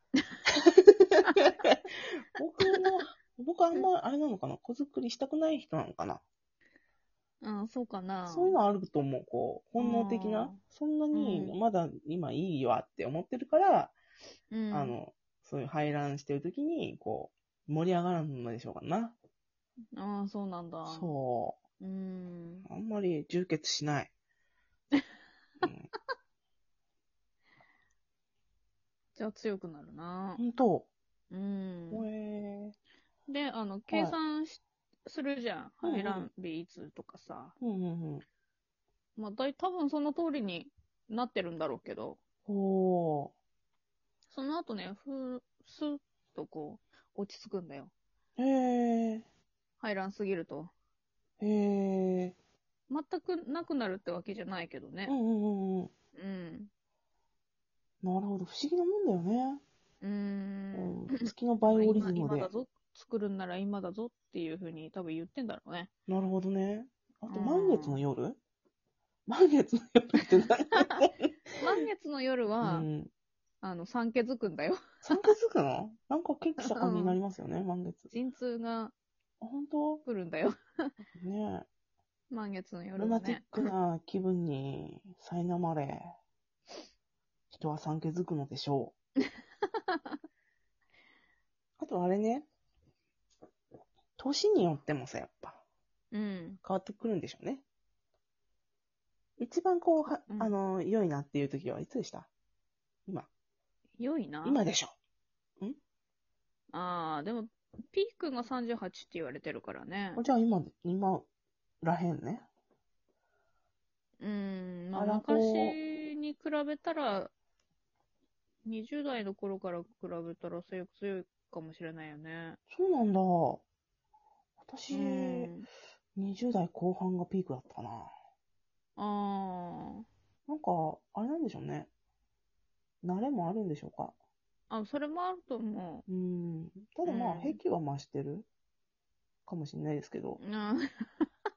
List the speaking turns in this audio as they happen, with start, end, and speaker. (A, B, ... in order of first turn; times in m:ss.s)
0:00.5-0:06.2 A
0:02.6-0:03.0 B
0:07.4-0:08.6 B
0:08.2-0:13.9 A
0:09.8-0:10.6 B
0:11.1-0:11.6 B
0:14.5-0:14.9 B
0:14.7-0:19.2 A
0:20.0-0:21.1 B
0:20.8-0:21.6 A
0:21.8-0:22.6 B
0:22.6-0:24.1 A
0:25.6-0:25.9 A
0:29.2-0:30.4 B
0:30.4-0:30.9 A
0:31.3-0:32.1 B
0:31.9-0:32.8 A
0:33.3-0:37.6 B
0:33.9-0:34.2 A
0:35.8-0:36.2 A
0:37.6-0:38.2 A
0:39.2-0:42.2 B
0:42.5-0:43.3 A
0:44.3-0:47.9 B
0:48.4-0:49.2 A
0:49.8-0:50.7 B
0:51.4-0:52.4 A
0:52.9-0:55.1 B
0:55.0-0:55.9 A
0:56.1-0:56.7 B
0:58.0-0:59.6 A
1:00.0-1:05.9 B
1:00.7-1:02.5 A
1:06.1-1:08.4 A
1:07.3-1:08.0 B
1:09.3-1:11.3 A
1:11.6-1:12.9 B
1:12.6-1:13.1 A
1:13.6-1:15.2 B
1:15.0-1:18.1 A
1:16.6-1:17.2 B
1:18.1-1:18.9 B
1:19.4-1:20.0 A
1:20.0-1:20.9 B
1:21.2-1:21.7 A
1:22.3-1:23.7 B
1:23.0-1:26.1 A
1:27.5-1:28.9 A
1:31.8-1:32.5 A
1:34.2-1:35.6 A
1:36.1-1:36.6 B
1:36.6-1:37.6 A
1:39.4-1:42.3 A
1:40.3-1:40.6 B
1:44.0-1:44.6 B
1:44.4-1:44.9 A
1:46.7-1:50.2 B
1:50.2-1:51.3 A
1:51.8-1:52.4 A
1:54.2-1:57.3 B
1:54.9-1:55.8 A
1:58.6-2:02.6 B
2:02.7-2:03.6 A
2:04.6-2:05.5 A
2:04.9-2:05.7 B
2:06.2-2:08.1 A
2:09.0-2:10.0 B
2:10.5-2:11.9 A
2:13.0-2:14.1 A
2:14.7-2:16.0 B
2:16.1-2:18.5 A
2:17.0-2:17.6 B
2:19.4-2:20.4 A
2:20.4-2:21.3 B